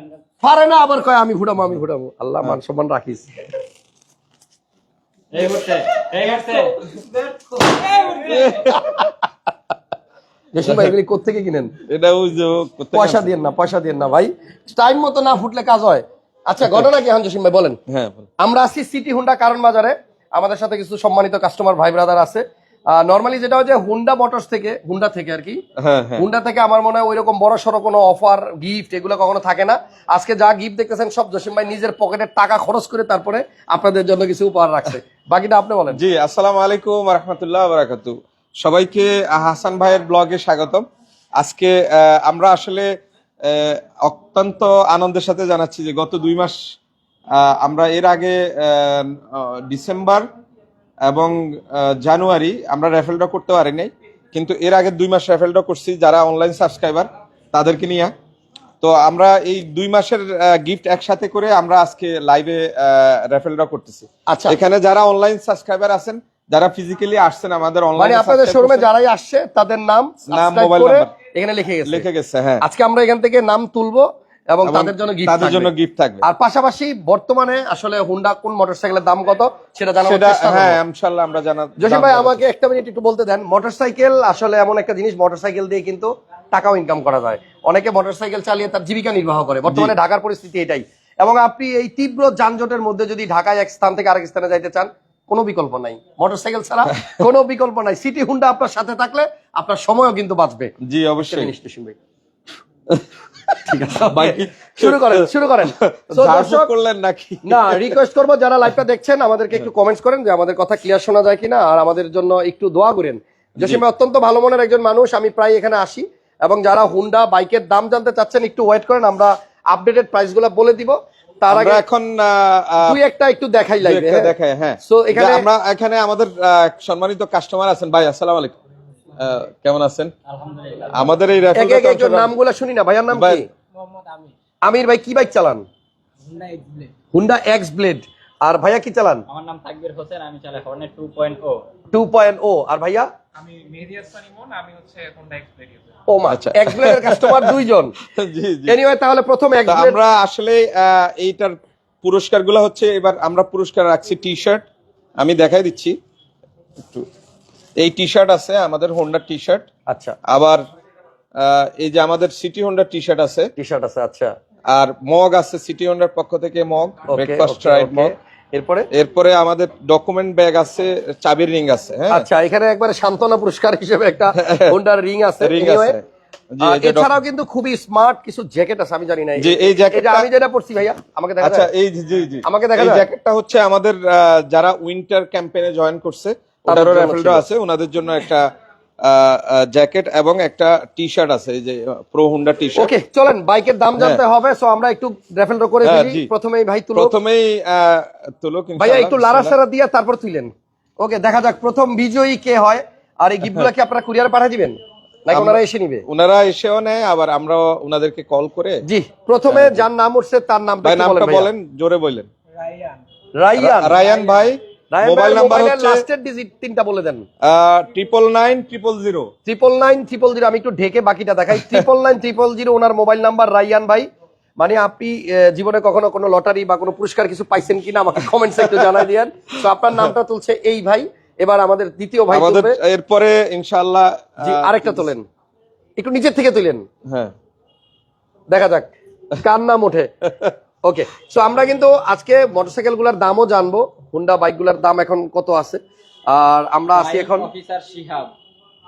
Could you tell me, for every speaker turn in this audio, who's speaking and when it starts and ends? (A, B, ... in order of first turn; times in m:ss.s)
0:00.4-0:03.3 A
0:05.3-0:06.9 B
0:07.9-0:09.0 A
0:08.2-0:09.0 C
0:10.5-0:11.8 A
0:10.6-0:10.9 C
0:11.9-0:13.3 C
0:12.9-0:17.8 A
0:17.9-0:18.3 C
0:18.4-0:25.6 A
0:25.8-0:26.2 C
0:26.2-0:36.0 A
0:35.9-0:40.8 C
0:41.4-0:42.9 C
0:43.4-0:46.6 C
0:47.3-0:50.3 C
0:51.1-0:58.1 C
0:58.8-1:08.9 C
1:04.3-1:04.6 A
1:08.0-1:12.1 A
1:10.3-1:11.1 C
1:11.9-1:12.6 C
1:12.6-1:20.8 A
1:14.6-1:16.2 C
1:20.0-1:22.4 C
1:21.8-1:40.7 A
1:29.7-1:30.0 C
1:40.8-1:41.5 C
1:41.2-1:42.0 A
1:42.9-1:48.0 C
1:43.7-1:46.7 A
1:47.4-2:01.8 A
2:01.5-2:03.0 C
2:02.8-2:05.5 A
2:03.8-2:08.6 C
2:09.2-2:10.1 C
2:10.3-2:10.9 B
2:10.9-2:12.3 C
2:11.6-2:13.5 A
2:13.1-2:13.4 C
2:13.9-2:14.3 B
2:14.6-2:15.6 A
2:16.3-2:16.9 B
2:17.1-2:19.2 A
2:19.3-2:21.6 B
2:21.9-2:23.1 A
2:23.6-2:25.7 D
2:23.8-2:25.5 B
2:26.1-2:28.0 A
2:26.3-2:27.6 C
2:28.1-2:28.8 C
2:28.7-2:30.0 A
2:29.7-2:34.7 C
2:35.2-2:36.0 C
2:36.8-2:37.1 C
2:37.8-2:39.7 C
2:39.9-2:40.2 A
2:40.3-2:40.6 C
2:41.4-2:43.5 C
2:43.6-2:44.3 A
2:44.7-2:48.1 C
2:47.1-2:48.9 A
2:48.9-2:52.3 C
2:52.1-2:56.0 A
2:54.3-2:54.8 C
2:55.4-2:56.0 C
2:56.5-2:57.1 C
2:56.6-3:01.7 A
2:59.4-3:00.3 C
3:01.4-3:08.5 C
3:02.4-3:03.1 A
3:06.7-3:07.4 A
3:09.0-3:12.9 C
3:12.8-3:17.2 A
3:15.8-3:16.3 C
3:16.9-3:19.6 C
3:18.8-3:26.0 A
3:25.3-3:28.8 C
3:28.8-3:31.5 A
3:29.5-3:29.9 C
3:30.8-3:32.3 C
3:33.4-3:34.0 A
3:33.6-3:36.0 C
3:34.9-3:37.2 A
3:37.4-3:39.3 C
3:39.5-3:44.1 A
3:44.6-3:52.8 A
3:48.7-3:49.0 C
3:52.3-3:55.1 C
3:54.4-3:55.3 A
3:56.0-3:56.9 A
3:57.1-3:57.3 C
3:58.5-4:00.1 A
4:00.8-4:07.5 A
4:06.9-4:08.3 B